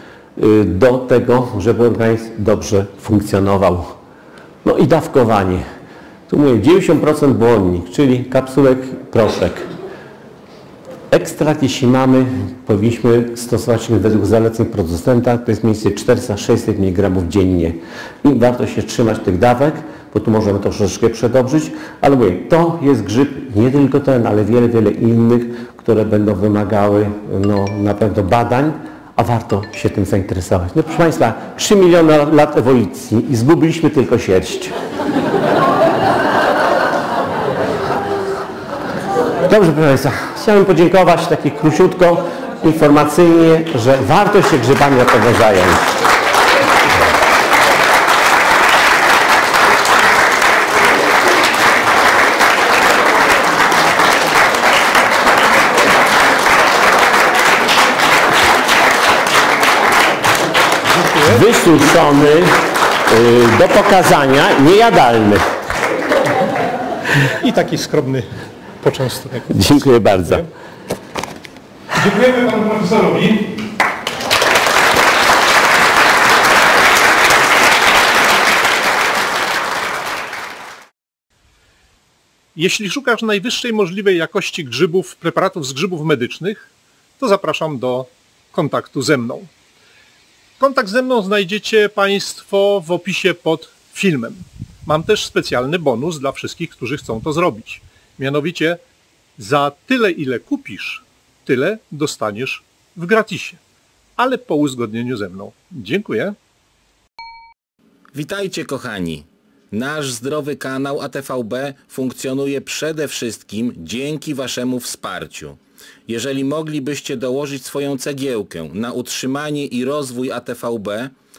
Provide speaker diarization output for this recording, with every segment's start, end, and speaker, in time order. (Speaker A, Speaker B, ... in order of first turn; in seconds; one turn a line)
Speaker A: 0.3-3.9
Speaker A: 4.6-5.6
Speaker A: 6.3-9.7
Speaker A: 11.1-34.7
Speaker A: 39.5-45.9
Speaker B: 61.0-61.4
Speaker A: 61.2-62.5
Speaker A: 63.1-65.4
Speaker B: 67.2-68.3
Speaker B: 68.8-70.5
Speaker A: 69.5-70.5
Speaker B: 71.9-73.5
Speaker B: 82.5-89.5
Speaker B: 90.6-98.8
Speaker B: 99.4-103.6
Speaker B: 104.2-106.3
Speaker C: 108.1-121.1